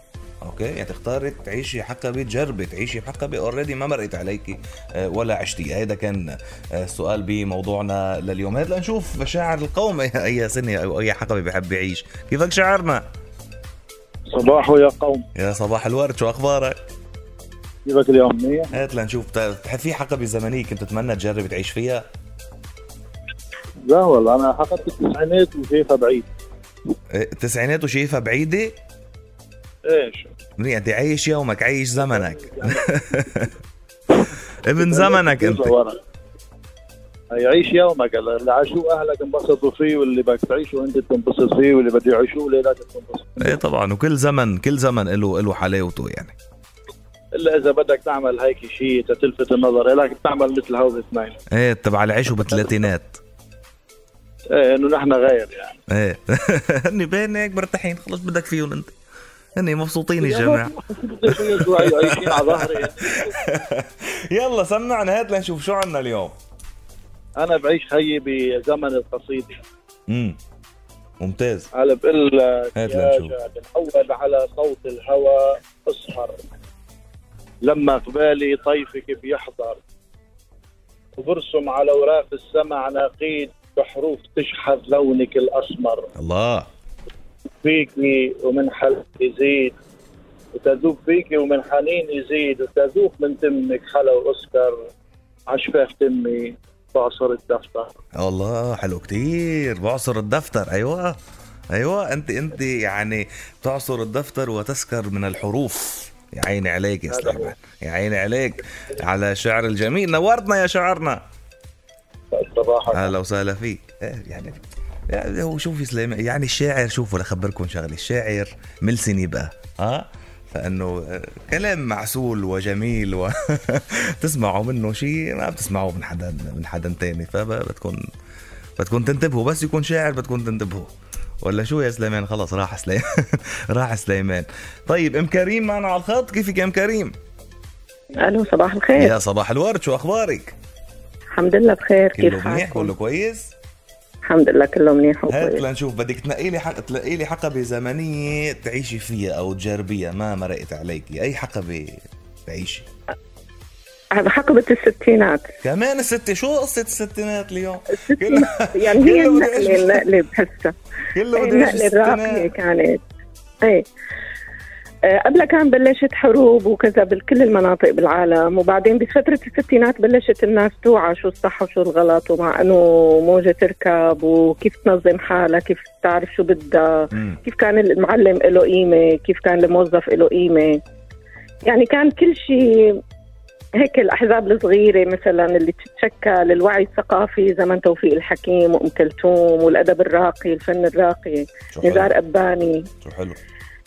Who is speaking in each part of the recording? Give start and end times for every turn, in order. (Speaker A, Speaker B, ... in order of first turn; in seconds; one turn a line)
Speaker A: 0.4-13.0
Speaker B: 14.3-15.2
Speaker A: 15.3-16.8
Speaker B: 17.9-18.7
Speaker A: 18.7-22.0
Speaker B: 23.8-26.3
Speaker A: 27.1-28.8
Speaker B: 29.9-30.3
Speaker A: 30.6-33.5
Speaker B: 32.0-32.8
Speaker A: 34.6-35.7
Speaker B: 34.8-36.0
Speaker B: 37.3-43.6
Speaker A: 43.4-46.3
Speaker B: 47.3-51.4
Speaker A: 51.5-53.2
Speaker B: 52.5-52.8
Speaker B: 54.5-55.8
Speaker A: 55.9-58.9
Speaker A: 59.5-60.8
Speaker B: 60.2-63.4
Speaker A: 61.3-66.3
Speaker B: 67.4-69.6
Speaker A: 70.1-70.4
Speaker A: 71.2-71.7
Speaker B: 71.7-76.4
Speaker A: 72.8-73.3
Speaker B: 77.6-79.8
Speaker B: 81.2-86.1
Speaker A: 86.2-86.7
Speaker B: 87.6-89.8
Speaker B: 90.5-94.8
Speaker B: 95.5-97.9
Speaker A: 98.2-101.2
Speaker A: 101.7-111.2
Speaker B: 107.1-107.5
Speaker B: 112.3-113.1
Speaker A: 112.9-128.0
Speaker A: 128.8-137.1
Speaker C: 138.2-139.2
Speaker A: 138.9-140.5
Speaker C: 141.3-142.9
Speaker A: 142.2-143.5
Speaker C: 144.2-145.6
Speaker A: 145.3-152.8
Speaker C: 154.1-155.5
Speaker A: 155.6-160.1
Speaker C: 157.9-160.7
Speaker A: 161.1-162.5
Speaker C: 161.3-163.0
Speaker C: 165.1-180.8
Speaker A: 177.1-177.4
Speaker C: 181.6-183.0
Speaker C: 183.8-192.9
Speaker A: 191.7-192.1
Speaker A: 193.0-193.4